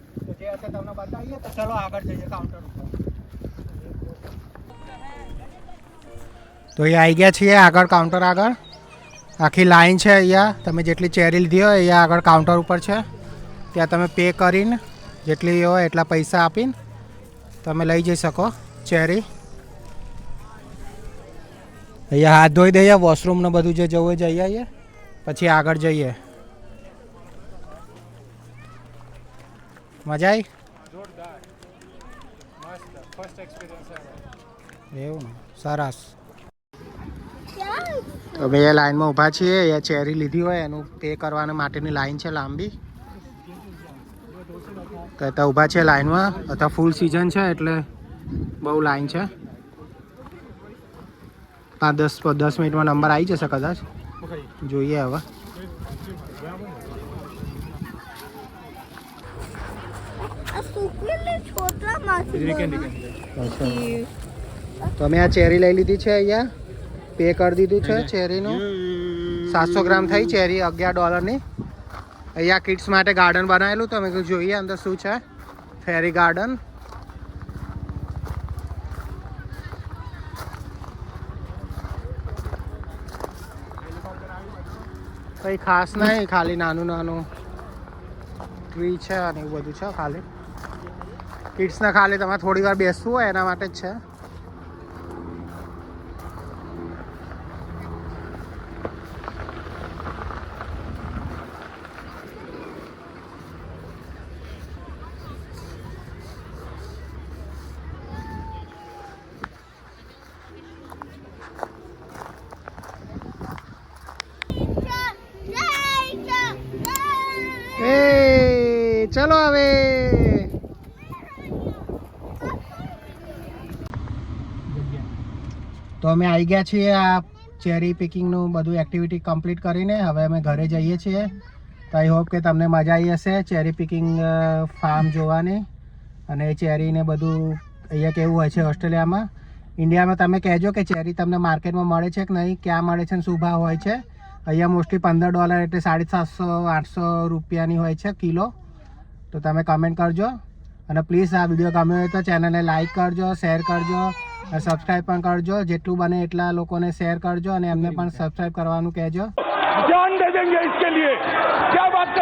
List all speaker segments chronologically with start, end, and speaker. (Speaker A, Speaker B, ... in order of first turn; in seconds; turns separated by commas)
Speaker A: 0.3-2.9, Speaker A: 6.8-8.6, Speaker A: 9.4-13.1, Speaker A: 13.7-16.8, Speaker A: 17.6-19.2, Speaker A: 22.1-24.7, Speaker A: 25.3-26.2, Speaker A: 30.1-30.5, Speaker A: 34.9-36.1, Speaker B: 37.5-38.6, Speaker A: 38.4-42.7, Speaker A: 45.2-47.9, Speaker A: 48.6-49.3, Speaker A: 51.8-53.8, Speaker A: 54.6-55.2, Speaker B: 60.2-62.9, Speaker A: 63.4-64.0, Speaker B: 63.5-64.1, Speaker A: 65.0-66.5, Speaker A: 67.2-68.7, Speaker A: 69.4-71.4, Speaker A: 72.3-75.2, Speaker A: 75.8-76.6, Speaker A: 85.4-87.3, Speaker A: 88.7-90.2, Speaker A: 91.6-94.0, Speaker B: 114.8-117.7, Speaker A: 117.8-120.5, Speaker A: 126.0-131.4, Speaker A: 131.9-135.7, Speaker A: 136.3-148.5, Speaker A: 149.3-150.4, Speaker A: 150.9-159.3, Speaker A: 160.4-161.1